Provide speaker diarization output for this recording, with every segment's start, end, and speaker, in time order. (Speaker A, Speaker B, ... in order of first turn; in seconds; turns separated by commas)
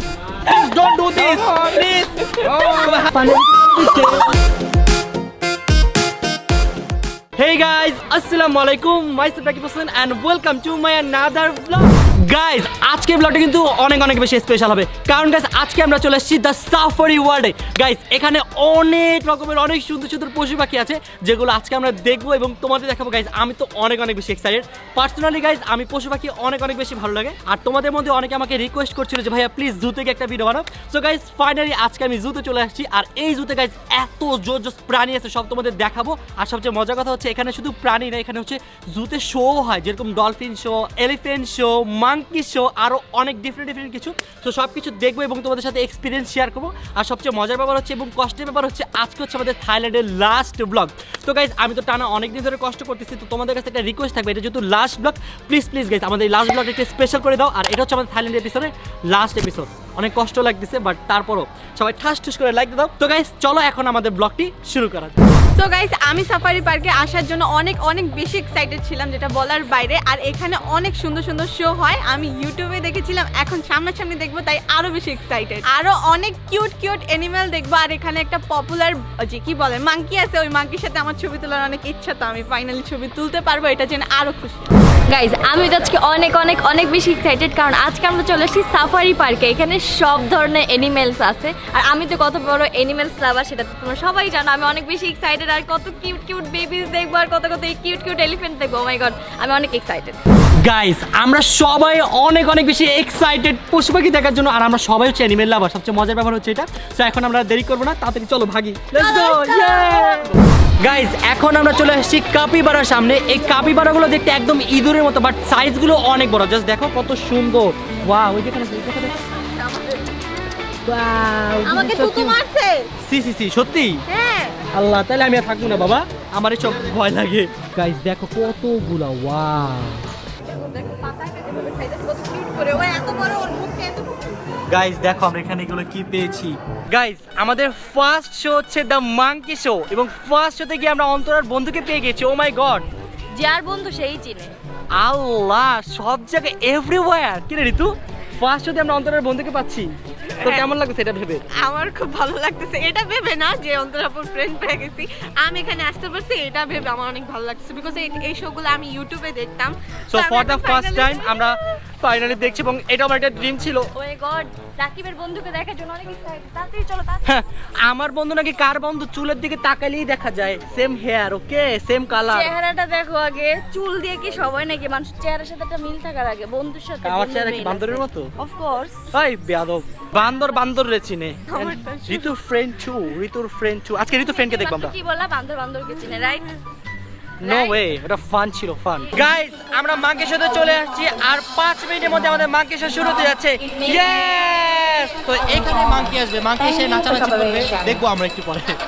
Speaker A: 0.5-4.3, Speaker A: 7.4-65.2, Speaker B: 65.6-84.8, Speaker C: 85.1-100.2, Speaker A: 100.6-119.2, Speaker B: 109.0-110.3, Speaker B: 119.3-120.1, Speaker A: 120.9-122.4, Speaker B: 121.6-122.9, Speaker A: 123.0-124.0, Speaker B: 124.1-124.6, Speaker A: 124.7-130.0, Speaker B: 130.5-134.4, Speaker A: 134.7-142.9, Speaker C: 143.3-144.6, Speaker A: 145.0-151.4, Speaker B: 150.4-150.7, Speaker B: 151.6-161.3, Speaker A: 160.1-163.9, Speaker C: 164.0-167.2, Speaker A: 167.2-172.6, Speaker C: 172.2-179.0, Speaker A: 177.0-178.3, Speaker A: 179.1-184.9, Speaker B: 181.5-182.3, Speaker C: 184.2-186.6, Speaker A: 187.4-198.8, Speaker C: 187.4-187.8, Speaker C: 196.6-197.9